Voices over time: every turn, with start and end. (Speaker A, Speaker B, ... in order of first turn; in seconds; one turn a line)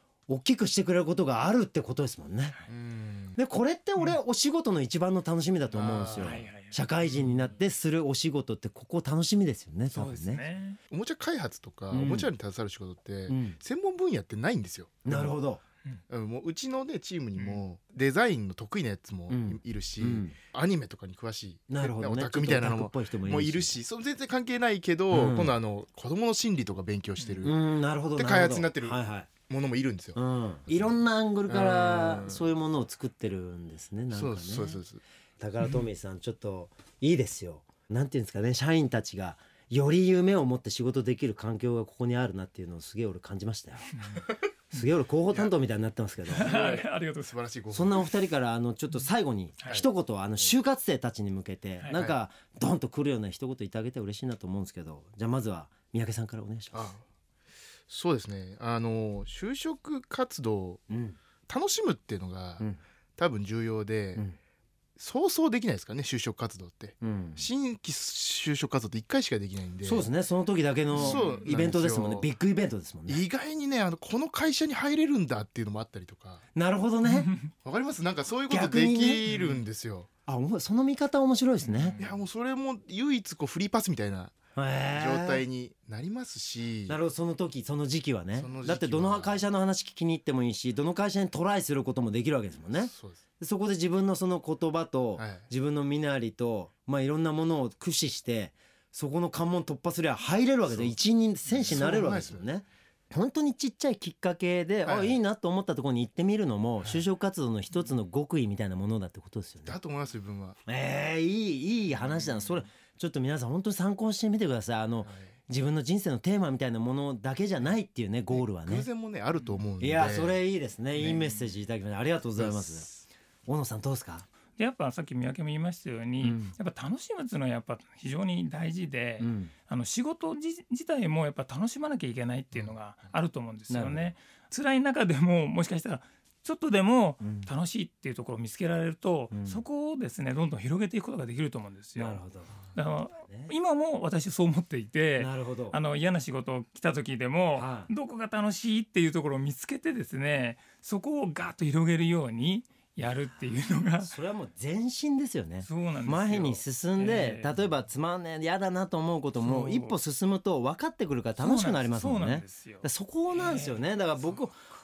Speaker A: 0.3-2.6
Speaker B: 2.7-3.4
Speaker A: 3.4-10.4
Speaker B: 5.7-6.4
Speaker C: 6.2-6.8
Speaker C: 9.9-10.8
Speaker B: 10.9-15.3
Speaker A: 11.9-12.3
Speaker A: 13.3-13.6
Speaker A: 15.1-15.6
Speaker B: 16.1-27.6
Speaker A: 19.3-20.3
Speaker A: 21.7-23.8
Speaker A: 25.1-25.6
Speaker A: 27.4-29.3
Speaker B: 28.1-30.2
Speaker A: 30.1-34.8
Speaker B: 31.5-32.4
Speaker B: 34.1-35.0
Speaker A: 35.4-43.9
Speaker C: 43.9-44.2
Speaker A: 44.7-46.6
Speaker C: 46.3-47.3
Speaker B: 46.4-48.1
Speaker A: 47.7-56.9
Speaker B: 56.7-57.0
Speaker B: 57.9-60.8
Speaker A: 60.9-61.2
Speaker B: 61.5-64.2
Speaker B: 65.0-70.1
Speaker A: 67.0-67.5
Speaker A: 69.8-73.2
Speaker B: 70.9-72.3
Speaker C: 71.0-71.5
Speaker B: 73.1-76.4
Speaker A: 76.5-77.3
Speaker C: 77.0-77.5
Speaker B: 77.6-80.1
Speaker A: 78.5-79.4
Speaker A: 80.3-82.0
Speaker C: 81.7-82.1
Speaker B: 81.9-84.3
Speaker A: 84.5-85.4
Speaker B: 84.9-87.0
Speaker A: 86.9-109.8
Speaker B: 88.4-89.4
Speaker B: 92.8-93.2
Speaker B: 95.2-95.5
Speaker B: 101.5-102.5
Speaker B: 104.9-105.2
Speaker B: 109.7-110.6
Speaker A: 110.7-118.9
Speaker B: 112.2-112.6
Speaker B: 115.0-115.3
Speaker B: 118.3-120.4
Speaker A: 119.8-122.9
Speaker B: 120.9-121.4
Speaker B: 122.4-123.0
Speaker A: 123.5-124.2
Speaker C: 124.6-142.2
Speaker A: 126.2-126.5
Speaker A: 129.2-129.5
Speaker A: 133.7-134.1
Speaker A: 137.2-137.5
Speaker A: 139.3-139.6
Speaker A: 141.9-142.5
Speaker C: 142.7-154.1
Speaker A: 145.2-145.8
Speaker A: 147.6-147.9
Speaker A: 154.0-164.6
Speaker C: 155.6-157.5
Speaker C: 159.4-159.9
Speaker C: 161.4-163.8